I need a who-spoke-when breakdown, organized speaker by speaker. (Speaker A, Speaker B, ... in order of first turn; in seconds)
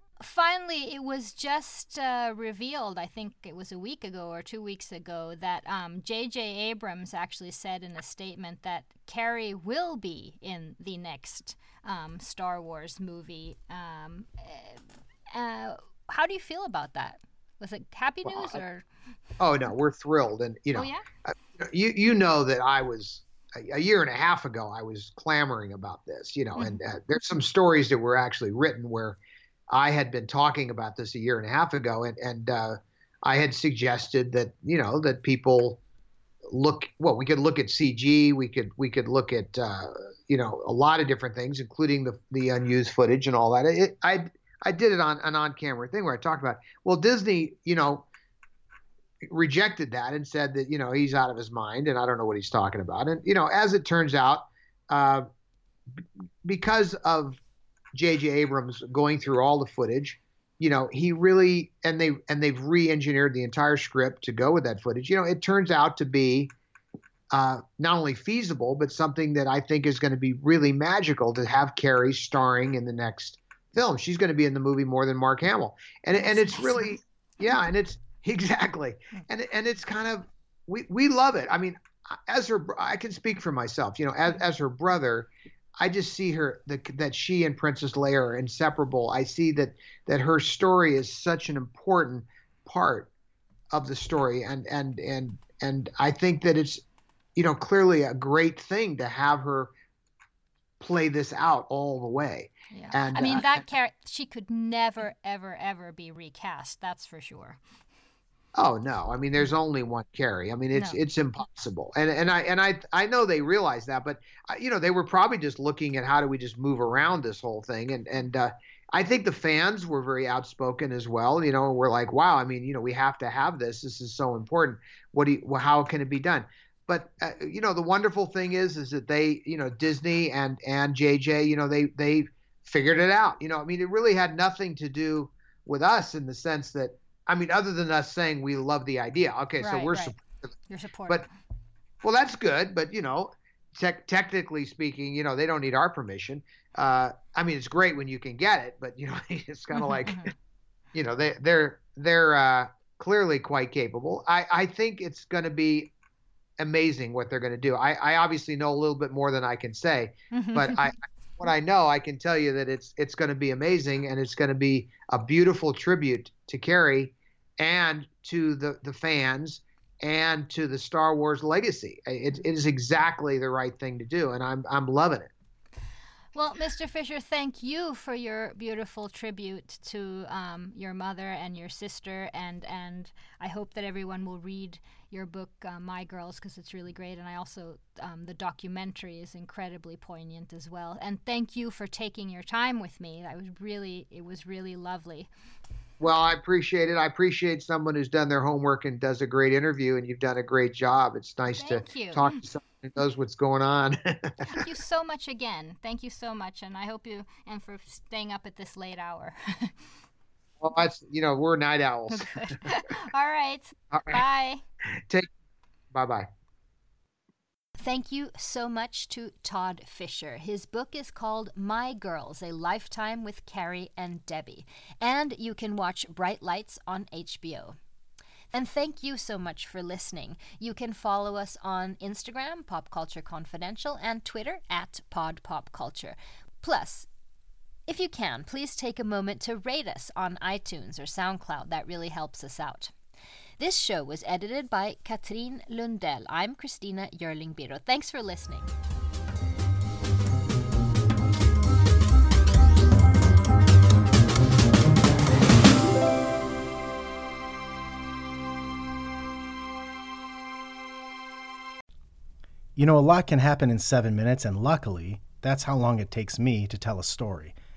Speaker A: 0.2-18.9, 20.8-21.0, 26.6-26.8, 76.5-76.8, 102.7-107.6, 139.6-140.2, 140.7-141.3, 149.7-150.3, 160.3-160.9, 176.3-195.3, 201.5-202.4, 204.5-209.8, 212.1-214.6, 217.8-227.8, 228.5-237.1, 237.9-242.9, 243.6-248.7
Speaker B: 18.2-18.6, 19.4-29.2, 29.7-35.8, 36.5-48.1, 49.2-55.3, 56.4-57.4, 57.9-66.5, 67.3-93.1, 93.7-96.8, 97.4-99.7, 100.8-103.6, 108.5-140.5, 142.0-150.3, 150.9-155.9, 156.6-175.3, 196.0-204.6, 210.6-212.7, 213.9-214.2, 215.9-216.3
Speaker C: 262.8-267.5